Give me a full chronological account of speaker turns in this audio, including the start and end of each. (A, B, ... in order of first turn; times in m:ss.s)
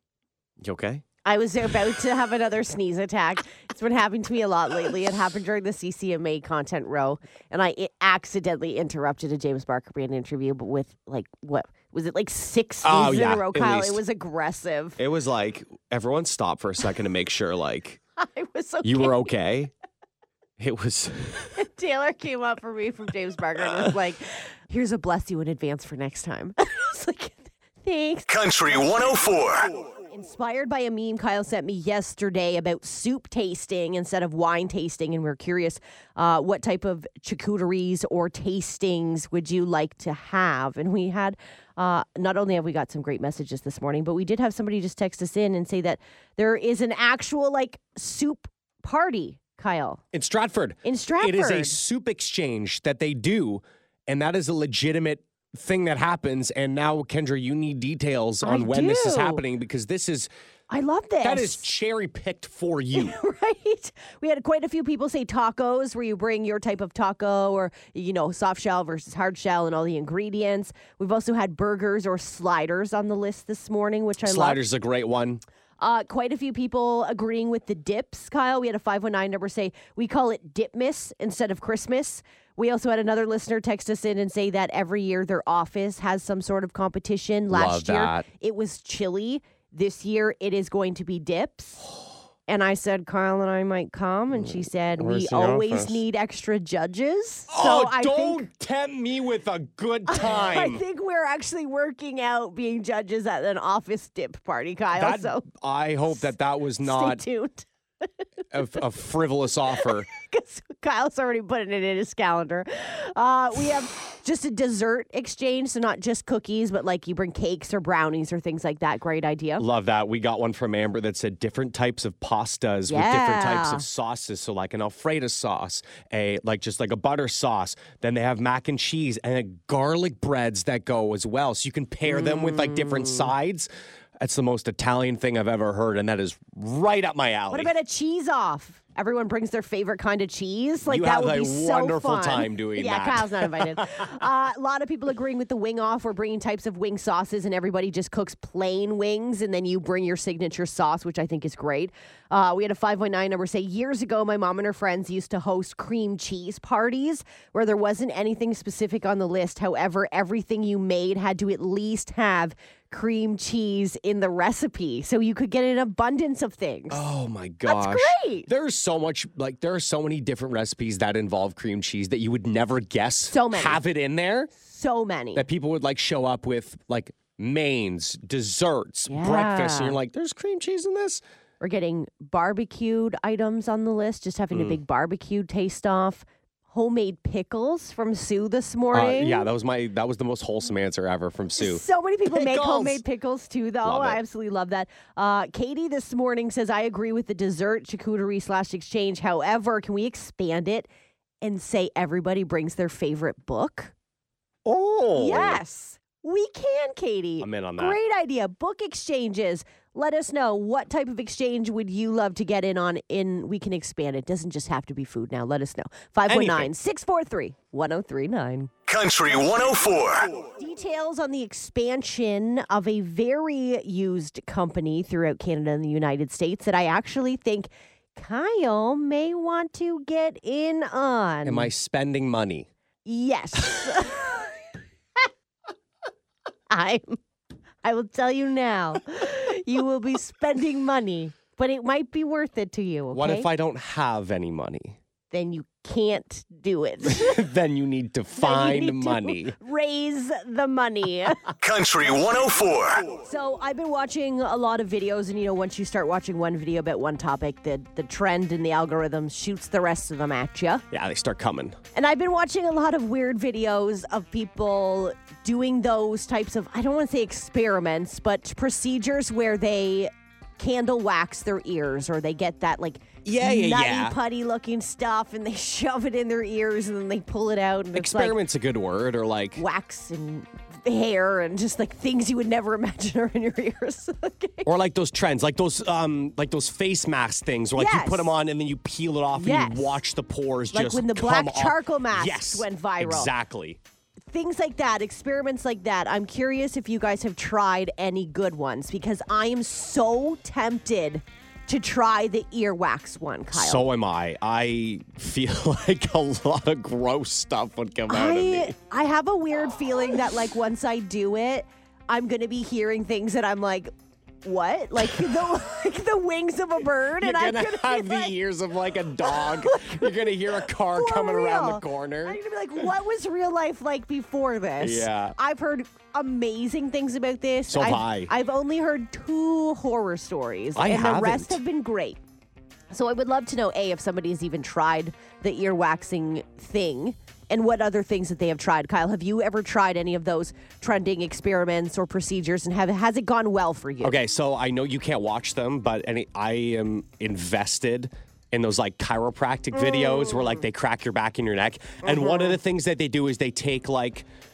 0:00.6-0:01.0 A
0:01.2-0:15.0 B
0:12.8-0:14.0 A
0:15.0-0:18.0 A
0:18.2-0:19.3 B
0:18.8-0:19.7 A
0:20.6-0:21.6 A
0:21.5-0:28.4 B
0:28.3-0:29.7 C
0:29.7-0:50.0 B
0:50.1-1:00.3 A
0:50.8-0:51.8 B
0:58.4-0:59.4 B
1:00.7-1:01.6 B
1:01.2-1:03.2 A
1:02.9-1:14.6 B
1:14.2-1:15.4 A
1:15.8-1:31.9 B
1:27.5-1:28.3 A
1:32.5-1:38.4 B
1:34.3-1:36.0 A
1:37.5-1:40.8 A
1:40.1-1:45.4 B
1:44.9-1:47.2 A
1:46.8-1:47.7 B
1:48.5-1:50.1 A
1:49.8-1:59.6 B
1:59.6-2:17.7 A
2:02.9-2:03.8 B
2:12.1-2:13.3 B
2:17.5-2:47.0 B
2:20.8-2:24.1 A
2:46.9-2:54.5 A
2:47.6-2:48.5 B
2:53.3-2:53.8 B
2:54.6-2:55.4 B
2:55.3-3:01.2 A
2:59.1-3:00.0 B
3:01.6-3:09.5 B
3:04.5-3:04.8 A
3:08.9-3:13.0 A
3:11.6-3:20.9 B
3:13.8-3:14.2 A
3:21.4-3:23.9 B
3:24.6-3:25.6 A
3:25.1-3:38.7 B
3:27.4-3:28.0 A
3:36.3-3:36.7 A
3:38.9-3:40.3 C
3:40.4-3:51.7 B
3:51.4-3:52.7 A
3:53.0-3:54.5 B
3:56.7-3:57.2 B
3:57.8-4:03.5 B
4:03.1-4:05.0 A
4:05.3-4:07.4 B
4:07.0-4:09.6 A
4:08.4-4:11.5 B
4:11.6-4:13.1 C
4:13.2-4:20.8 B
4:20.9-4:21.8 A
4:21.9-4:38.4 B
4:33.2-4:34.2 A
4:37.9-4:39.6 A
4:39.6-4:44.7 B
4:44.6-4:53.8 A
4:47.7-4:48.4 B
4:49.3-4:50.0 B
4:50.7-4:53.3 B
4:54.3-5:03.8 B
5:03.5-5:08.7 A
5:08.1-5:13.9 B
5:14.4-5:18.3 B
5:17.1-5:22.4 A
5:19.2-5:32.2 B
5:24.8-5:25.4 A
5:27.7-5:28.3 A
5:30.8-5:31.6 A
5:32.9-5:44.2 B
5:44.0-5:54.3 A
5:49.7-5:50.6 B
5:52.0-5:52.6 B